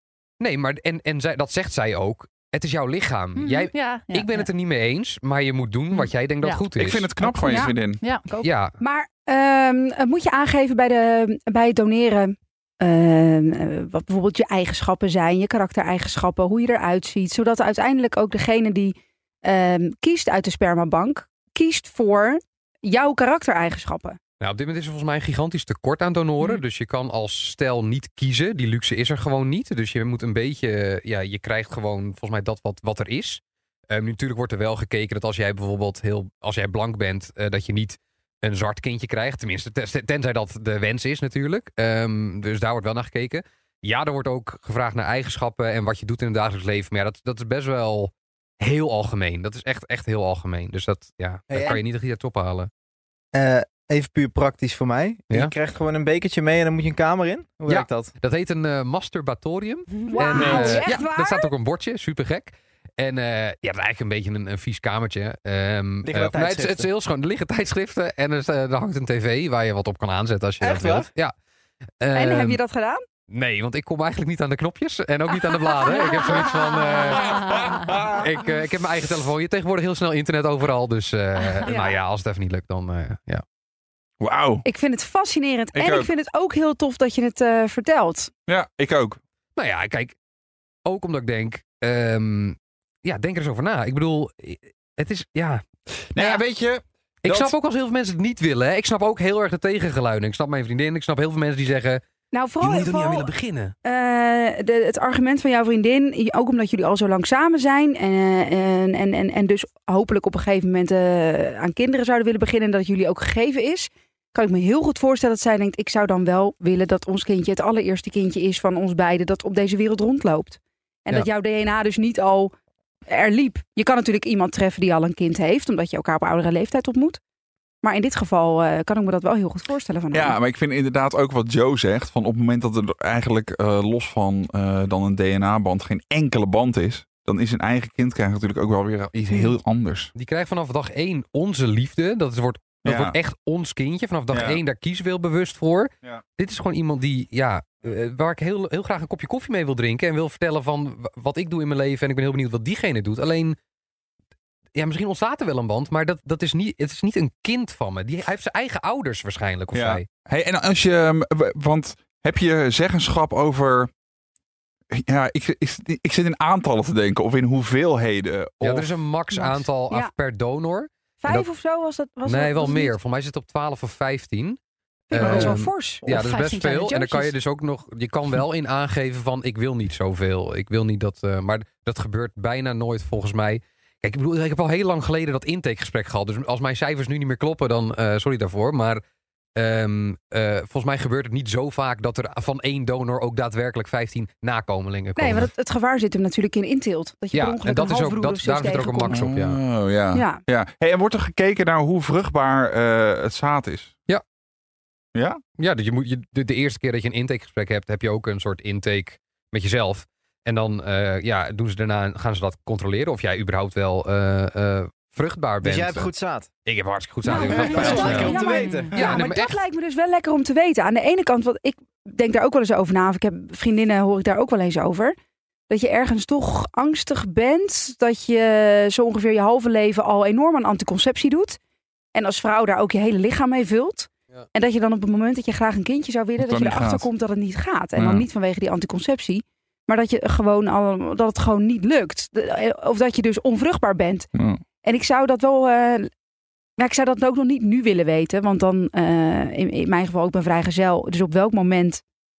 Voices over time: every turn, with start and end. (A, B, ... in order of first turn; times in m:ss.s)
0:00.4-0:07.1 A
0:03.4-0:04.5 B
0:06.8-0:08.0 C
0:07.2-0:08.3 B
0:07.5-0:07.8 D
0:08.3-0:24.2 D
0:08.4-0:08.7 A
0:24.4-0:52.7 A
0:51.5-0:51.8 E
0:53.3-0:58.1 E
0:57.7-1:11.3 A
1:00.0-1:00.6 B
1:00.1-1:01.5 D
1:00.4-1:00.8 E
1:06.0-1:06.9 E
1:10.6-1:11.1 E
1:12.0-1:12.6 A
1:12.1-1:13.0 D
1:13.3-1:23.4 A
1:17.1-1:17.6 B
1:17.1-1:18.3 C
1:21.6-1:21.9 B
1:24.2-1:24.6 C
1:24.6-1:28.3 D
1:25.7-1:26.1 C
1:28.5-1:29.2 C
1:29.6-1:30.2 A
1:30.8-1:35.6 A
1:36.1-1:37.5 C
1:36.2-1:36.4 A
1:37.2-1:42.0 A
1:42.3-1:43.3 D
1:42.6-1:43.8 A
1:43.8-2:02.5 D
2:03.1-2:07.2 D
2:07.8-2:10.4 D
2:10.1-2:20.1 C
2:19.2-2:19.5 A
2:20.1-2:33.6 A
2:22.8-2:23.2 C
2:24.3-2:24.6 C
2:34.8-2:40.1 A
2:39.7-2:43.9 C
2:44.9-2:48.9 C
2:48.6-2:51.5 A
2:49.3-2:49.6 B
2:51.2-2:53.0 D
2:52.2-2:54.6 A
2:55.1-2:56.1 D
2:55.1-3:09.0 A
2:55.2-2:55.5 B
2:56.0-2:57.3 B
3:09.6-3:15.5 A
3:15.2-3:19.2 D
3:17.3-3:19.6 A
3:19.1-3:23.9 C
3:20.1-3:20.4 D
3:25.2-3:25.4 C
3:25.6-3:36.1 A
3:35.6-3:36.5 E
3:36.7-3:39.6 A
3:37.2-3:45.2 D
3:37.3-3:39.2 B
3:37.3-3:38.9 E
3:45.7-3:51.6 D
3:52.1-4:04.3 D
3:56.4-3:57.1 C
3:58.0-3:58.3 C
4:04.4-4:04.6 C
4:04.8-4:06.1 D
4:06.8-4:12.0 D